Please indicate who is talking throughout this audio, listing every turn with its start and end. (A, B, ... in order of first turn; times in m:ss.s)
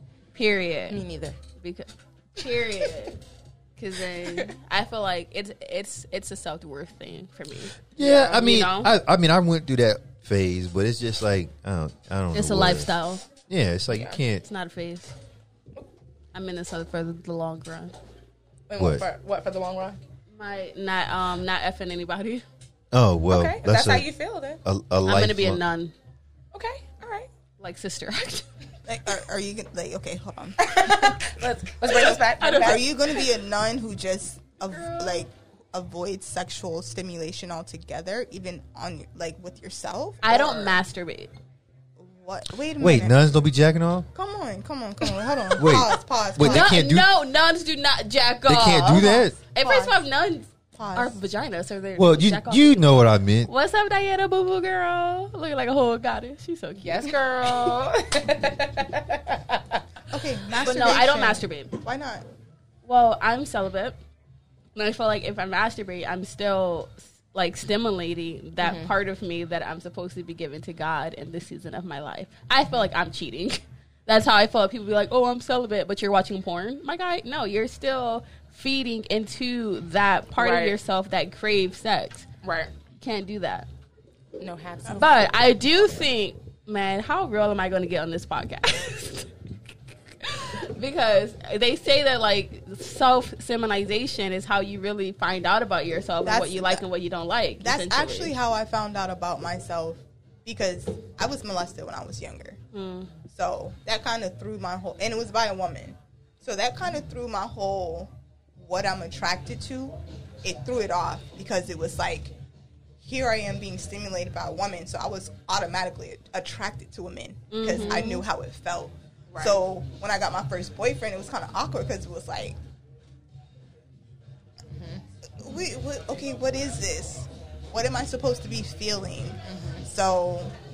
0:00.4-0:01.0 A
0:00.9-0:01.4 B
0:01.6-0:03.2 A
0:03.8-0:07.8 A
0:08.0-0:12.9 C
0:08.0-0:08.6 B
0:08.3-0:08.9 A
0:12.3-0:13.2 A
0:13.5-0:14.4 C
0:13.9-0:14.2 B
0:14.4-0:15.1 A
0:16.3-0:17.9 A
0:18.7-0:20.0 B
0:18.8-0:19.0 C
0:20.3-0:22.4 A
0:22.9-0:24.1 C
0:23.3-0:24.6 B
0:24.6-0:25.6 C
0:25.0-0:25.9 A
0:26.5-0:27.3 B
0:27.6-0:28.5 A
0:28.9-0:31.2 D
0:30.6-0:33.0 B
0:31.9-0:40.7 D
0:32.4-0:32.8 A
0:34.7-0:35.2 A
0:40.2-0:41.3 A
0:42.0-0:43.2 D
0:42.8-0:44.1 C
0:44.1-0:46.7 D
0:45.6-0:47.1 C
0:46.4-0:57.1 A
0:48.5-0:49.4 C
0:49.0-0:50.0 D
0:50.8-0:51.2 D
0:52.0-0:53.5 C
0:56.8-0:59.8 B
1:00.1-1:02.2 D
1:00.6-1:01.8 A
1:02.8-1:04.0 A
1:04.8-1:22.3 A
1:08.6-1:08.9 B
1:20.4-1:20.8 B
1:22.4-1:22.7 B
1:23.0-1:23.7 A
1:24.4-1:25.1 B
1:24.9-1:29.3 A
1:30.2-1:38.3 A
1:36.2-1:36.8 D
1:37.6-1:42.6 D
1:42.7-1:43.1 A
1:43.3-1:52.3 D
1:53.0-2:02.6 D
1:57.5-1:58.3 A
1:59.3-1:59.6 B
2:04.7-2:05.0 B
2:05.4-2:10.5 D
2:09.5-2:09.8 B